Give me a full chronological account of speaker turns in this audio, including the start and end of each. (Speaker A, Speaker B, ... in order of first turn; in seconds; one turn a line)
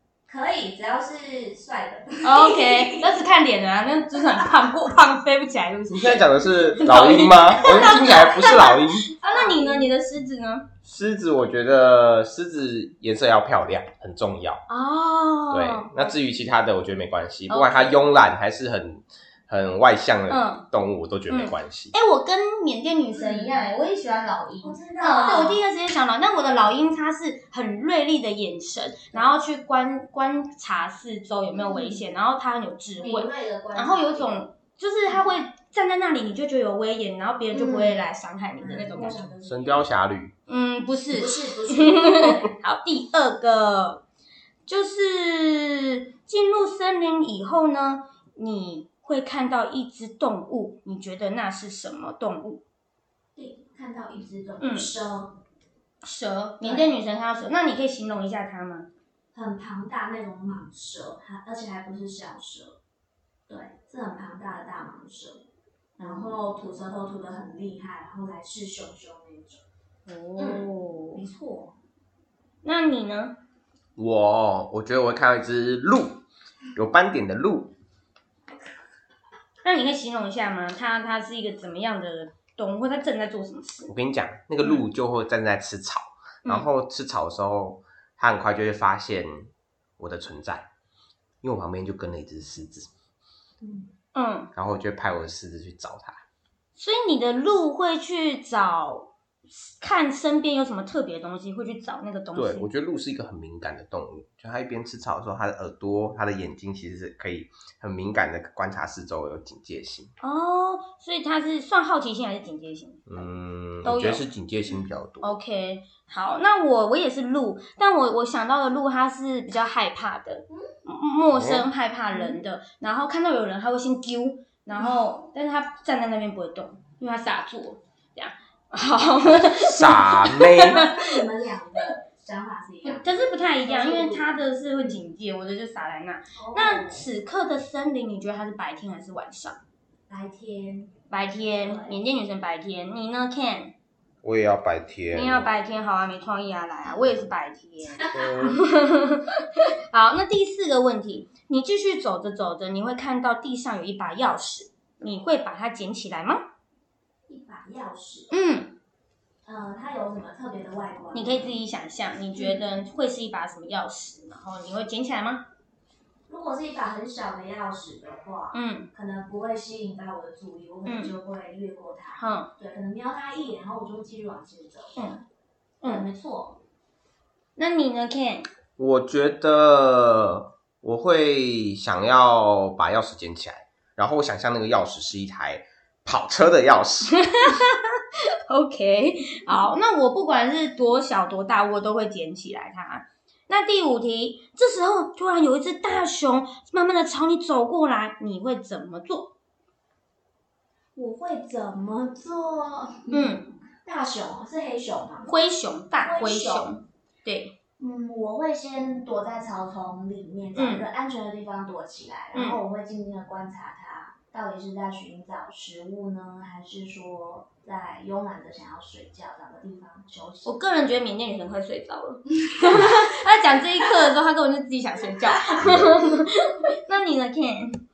Speaker A: 0.3-3.2
Speaker B: 2.2-10.7
Speaker C: 5.9-9.0
Speaker A: 7.6-9.9
Speaker C: 10.8-14.6
Speaker B: 14.7-16.0
Speaker C: 15.5-21.9
Speaker B: 17.5-18.0
Speaker B: 20.3-20.6
Speaker B: 21.3-39.3
Speaker A: 23.1-23.7
Speaker A: 24.6-25.6
Speaker A: 31.5-32.0
Speaker A: 33.0-34.3
Speaker A: 37.5-38.0
Speaker A: 38.6-39.9
Speaker C: 39.4-40.3
Speaker B: 40.5-44.0
Speaker A: 41.1-42.5
Speaker B: 44.7-52.6
Speaker A: 53.4-55.3
Speaker B: 54.6-54.9
Speaker B: 56.0-58.9
Speaker A: 56.6-56.9
Speaker A: 59.3-62.8
Speaker A: 63.5-65.4
Speaker B: 66.0-66.4
Speaker A: 66.0-69.6
Speaker B: 70.1-71.2
Speaker A: 70.4-71.8
Speaker B: 72.6-73.4
Speaker C: 74.0-76.2
Speaker C: 76.8-77.8
Speaker B: 79.6-83.9
Speaker C: 83.9-90.7
Speaker C: 91.4-92.9
Speaker A: 93.6-93.9
Speaker B: 94.2-94.5
Speaker C: 94.5-96.2
Speaker B: 96.8-102.7
Speaker C: 102.3-110.1
Speaker B: 110.2-113.1
Speaker C: 113.1-115.3
Speaker B: 113.8-114.2
Speaker B: 115.2-131.2
Speaker C: 121.3-121.7
Speaker A: 122.1-122.4
Speaker C: 129.5-130.8
Speaker A: 130.6-134.4
Speaker B: 132.8-139.6
Speaker A: 136.4-137.1
Speaker A: 140.1-142.0
Speaker B: 141.1-143.7
Speaker C: 144.2-145.5
Speaker B: 145.1-156.4
Speaker A: 148.0-148.6
Speaker C: 148.1-148.5
Speaker A: 157.3-158.3
Speaker B: 158.3-158.7
Speaker A: 159.4-161.6
Speaker B: 161.1-165.4
Speaker A: 162.3-162.6
Speaker A: 166.3-175.1
Speaker B: 168.5-168.9
Speaker B: 170.9-171.1
Speaker B: 172.2-172.5
Speaker B: 175.0-175.2
Speaker A: 175.8-176.6
Speaker B: 177.6-178.5
Speaker C: 178.8-187.2
Speaker B: 187.1-199.3
Speaker A: 200.9-205.3
Speaker B: 203.1-203.5
Speaker B: 205.3-207.5
Speaker A: 206.0-206.7
Speaker A: 207.8-220.6
Speaker B: 210.6-210.9
Speaker B: 212.3-212.6
Speaker B: 220.4-227.8
Speaker A: 222.4-223.1
Speaker C: 225.6-226.0